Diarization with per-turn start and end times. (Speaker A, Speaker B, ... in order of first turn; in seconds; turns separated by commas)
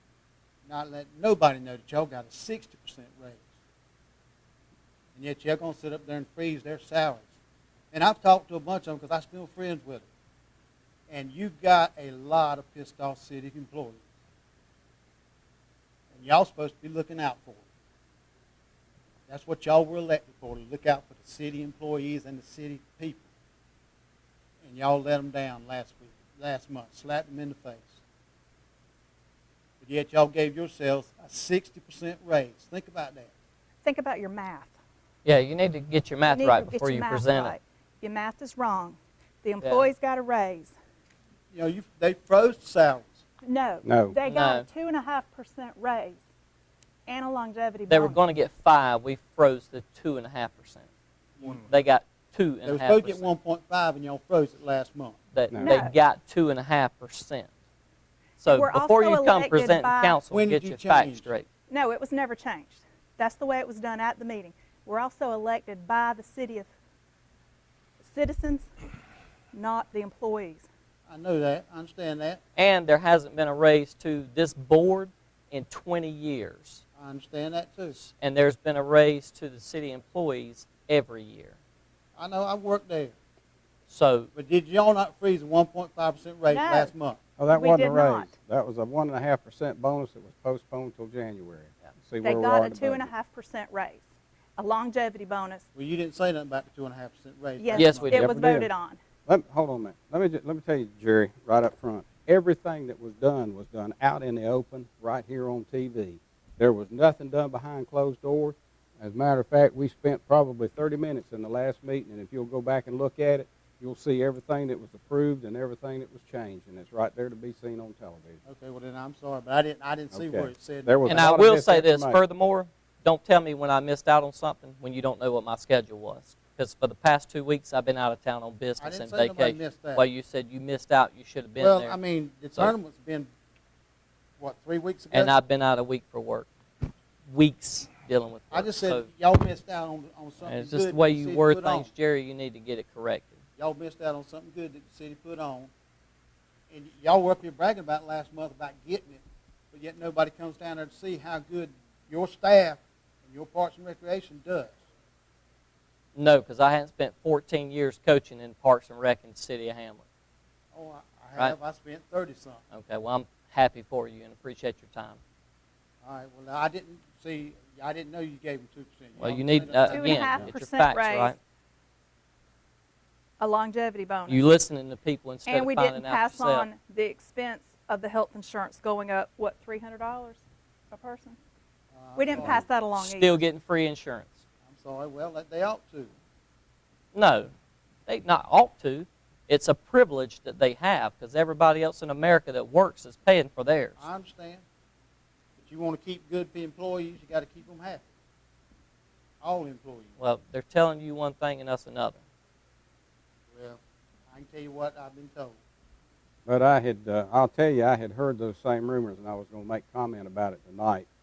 Speaker A: 0.7-3.4, Speaker A: 5.2-7.3, Speaker A: 7.9-10.1, Speaker A: 11.1-14.0, Speaker A: 16.1-17.6, Speaker A: 19.3-23.3, Speaker A: 24.6-28.0, Speaker A: 29.8-33.3, Speaker B: 33.8-34.7, Speaker C: 35.2-37.5, Speaker B: 36.3-40.7, Speaker C: 39.6-39.9, Speaker A: 41.5-43.2, Speaker B: 43.4-46.2, Speaker D: 43.8-44.2, Speaker C: 44.3-44.7, Speaker B: 47.1-48.2, Speaker C: 47.9-50.9, Speaker A: 51.4-51.7, Speaker C: 51.4-53.3, Speaker A: 52.6-55.2, Speaker C: 55.3-57.5, Speaker D: 55.5-55.8, Speaker B: 55.6-55.9, Speaker C: 58.4-61.5, Speaker B: 58.5-60.2, Speaker A: 60.3-61.3, Speaker B: 61.7-66.7, Speaker B: 68.0-68.7, Speaker B: 69.5-70.6, Speaker A: 71.1-72.4, Speaker C: 72.6-76.8, Speaker A: 77.0-78.0, Speaker C: 78.0-81.6, Speaker A: 82.2-83.2, Speaker C: 83.9-84.3, Speaker A: 84.3-87.2, Speaker B: 86.5-86.9, Speaker D: 87.4-93.1, Speaker B: 87.5-88.3, Speaker B: 92.2-94.1, Speaker B: 94.6-95.7, Speaker A: 95.8-98.1, Speaker B: 97.6-99.0, Speaker C: 97.7-98.2, Speaker D: 98.1-98.7, Speaker D: 99.3-118.4, Speaker A: 118.5-121.2, Speaker D: 120.1-122.2, Speaker C: 121.1-132.0, Speaker A: 128.8-130.1, Speaker A: 131.6-133.3, Speaker A: 134.4-135.4, Speaker C: 135.1-136.5, Speaker C: 137.3-139.1, Speaker A: 138.5-141.9, Speaker C: 140.4-143.4, Speaker A: 143.6-145.7, Speaker A: 146.7-154.8, Speaker C: 156.2-160.0, Speaker A: 160.7-162.6, Speaker C: 162.7-165.2, Speaker A: 166.0-170.3, Speaker C: 169.2-171.4, Speaker B: 169.9-171.3, Speaker B: 173.4-174.5, Speaker C: 174.3-176.7, Speaker B: 175.5-181.4, Speaker A: 181.9-182.7, Speaker B: 182.2-183.4, Speaker C: 183.0-184.4, Speaker A: 184.7-186.1, Speaker C: 187.1-187.5, Speaker C: 188.1-194.0, Speaker A: 194.0-194.6, Speaker A: 195.6-198.1, Speaker A: 199.4-200.1, Speaker C: 200.2-202.2, Speaker A: 203.5-205.6, Speaker D: 206.5-211.1